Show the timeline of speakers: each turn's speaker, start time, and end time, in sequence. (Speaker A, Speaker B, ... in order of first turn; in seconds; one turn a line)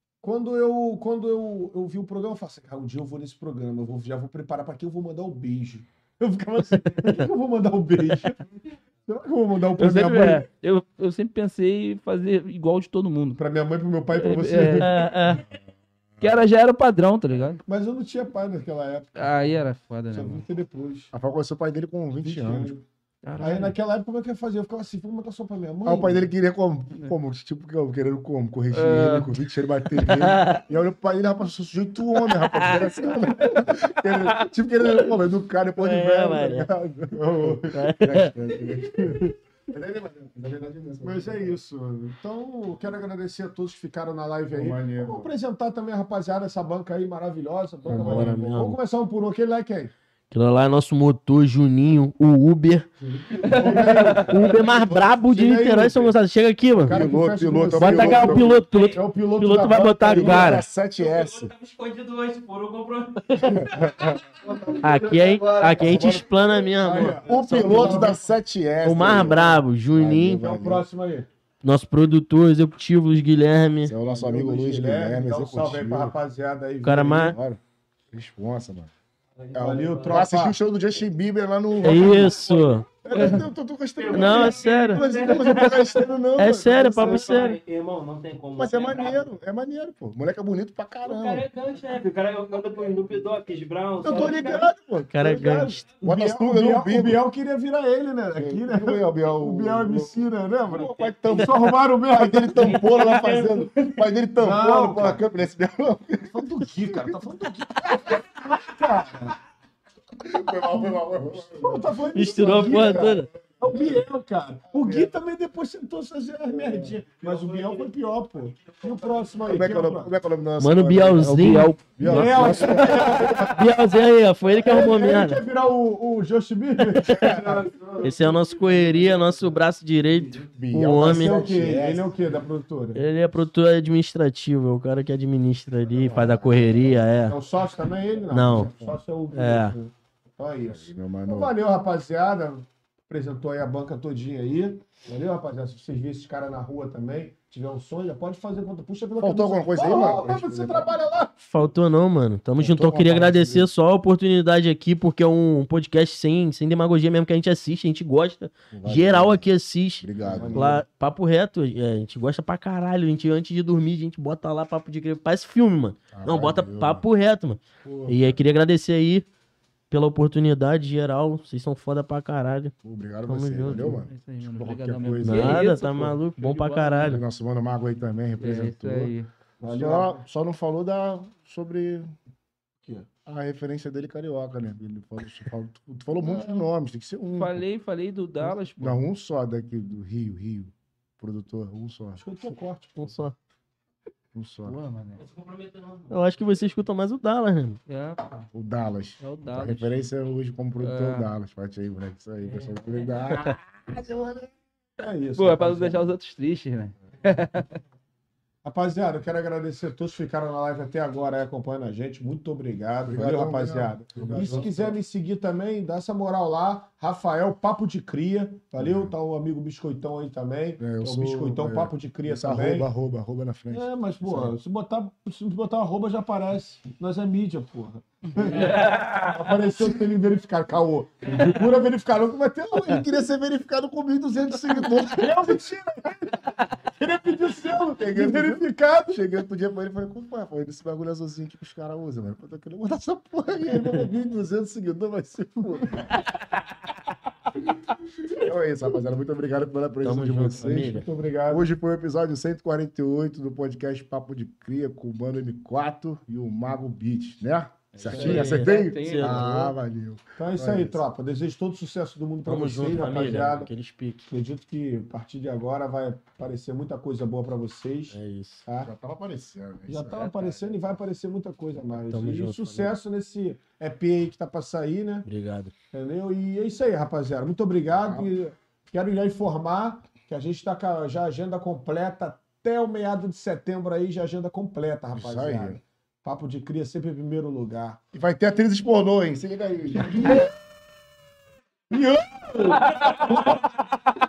Speaker A: 0.2-10.4
Speaker B: 9.8-13.4
Speaker A: 13.4-15.0
Speaker B: 14.2-15.0
Speaker C: 14.8-15.4
Speaker B: 16.2-17.6
Speaker A: 17.6-19.5
Speaker B: 19.1-20.4
Speaker A: 20.1-21.1
Speaker D: 21.1-22.7
Speaker A: 22.2-22.8
Speaker B: 23.2-23.7
Speaker A: 23.4-26.3
Speaker D: 25.8-41.6
Speaker B: 28.7-29.4
Speaker C: 30.0-30.6
Speaker C: 32.3-33.1
Speaker C: 35.8-36.7
Speaker A: 37.1-37.9
Speaker C: 37.7-38.3
Speaker C: 39.0-39.3
Speaker A: 41.0-49.9
Speaker D: 44.5-45.3
Speaker D: 47.9-48.4
Speaker C: 47.9-48.8
Speaker C: 50.3-52.9
Speaker A: 53.1-56.1
Speaker D: 53.3-55.1
Speaker B: 53.4-54.3
Speaker C: 54.3-57.0
Speaker D: 56.8-58.6
Speaker A: 56.8-60.6
Speaker C: 57.7-60.5
Speaker D: 59.7-61.5
Speaker B: 60.1-60.6
Speaker E: 61.0-66.2
Speaker C: 63.3-63.7
Speaker D: 63.4-66.5
Speaker C: 64.8-67.2
Speaker A: 65.9-68.3
Speaker D: 67.2-70.8
Speaker E: 67.2-68.0
Speaker C: 68.8-70.5
Speaker A: 70.3-71.3
Speaker C: 71.6-73.9
Speaker D: 73.8-76.2
Speaker A: 74.0-77.4
Speaker C: 76.8-77.4
Speaker D: 77.2-78.9
Speaker E: 79.4-80.3
Speaker A: 79.5-80.6
Speaker D: 80.0-82.4
Speaker C: 81.8-82.8
Speaker E: 81.8-83.3
Speaker D: 83.0-87.4
Speaker A: 83.0-83.5
Speaker E: 84.0-86.1
Speaker C: 84.1-85.0
Speaker C: 86.3-87.6
Speaker E: 87.0-89.3
Speaker D: 88.5-91.5
Speaker E: 91.0-94.7
Speaker D: 94.0-97.2
Speaker C: 95.1-95.8
Speaker A: 95.4-103.1
Speaker D: 98.3-107.2
Speaker E: 102.5-103.7
Speaker A: 104.3-105.2
Speaker A: 106.2-109.4
Speaker D: 110.2-114.0
Speaker A: 110.7-120.1
Speaker C: 112.1-113.3
Speaker D: 114.7-115.1
Speaker D: 116.5-117.0
Speaker E: 117.0-119.4
Speaker D: 119.4-123.5
Speaker C: 120.6-125.4
Speaker B: 121.2-122.6
Speaker A: 122.0-123.7
Speaker A: 124.4-128.4
Speaker C: 127.0-127.4
Speaker D: 127.1-127.7
Speaker C: 128.0-131.6
Speaker D: 130.5-132.1
Speaker A: 131.0-133.0
Speaker C: 132.9-137.4
Speaker D: 136.1-136.9
Speaker A: 136.2-136.5
Speaker A: 137.2-151.3
Speaker C: 138.3-138.7
Speaker D: 138.3-139.0
Speaker C: 139.3-139.8
Speaker D: 140.6-141.5
Speaker D: 149.2-150.9
Speaker C: 151.4-169.2
Speaker D: 152.6-153.7
Speaker D: 158.7-160.8
Speaker A: 160.2-160.8
Speaker D: 166.1-167.0
Speaker D: 167.8-168.4
Speaker C: 169.9-172.7
Speaker D: 172.8-175.7
Speaker C: 173.3-174.0
Speaker B: 174.1-177.2
Speaker C: 175.2-177.2
Speaker D: 177.1-182.1
Speaker B: 178.4-179.3
Speaker A: 179.6-180.2
Speaker D: 183.2-187.6
Speaker B: 187.3-189.0
Speaker D: 188.4-192.6
Speaker A: 192.2-193.2
Speaker C: 193.0-193.3
Speaker D: 194.3-194.8
Speaker E: 194.9-196.5
Speaker C: 196.1-197.8
Speaker B: 197.9-198.5
Speaker D: 198.5-204.5
Speaker B: 199.2-199.9
Speaker B: 200.8-201.3
Speaker A: 205.0-206.1
Speaker B: 205.3-207.8
Speaker A: 208.6-222.9
Speaker D: 213.0-215.0
Speaker D: 218.8-219.1
Speaker D: 220.8-224.6
Speaker A: 223.7-233.1
Speaker B: 228.5-229.2
Speaker D: 229.7-230.0
Speaker D: 232.7-235.6
Speaker A: 234.7-239.2
Speaker D: 237.3-246.2
Speaker D: 248.2-261.0
Speaker C: 250.0-251.0
Speaker A: 250.7-251.6
Speaker C: 257.9-259.5
Speaker A: 258.1-258.8
Speaker E: 258.1-259.7
Speaker A: 260.4-263.7
Speaker C: 262.4-264.3
Speaker D: 263.0-263.5
Speaker A: 264.3-268.9
Speaker C: 268.1-268.6
Speaker D: 268.8-270.7
Speaker A: 269.9-275.3
Speaker C: 272.1-272.9
Speaker C: 275.2-275.7
Speaker A: 275.9-288.0
Speaker D: 278.0-278.3
Speaker D: 285.1-285.8
Speaker D: 288.1-290.5
Speaker A: 291.9-293.7
Speaker B: 292.9-293.4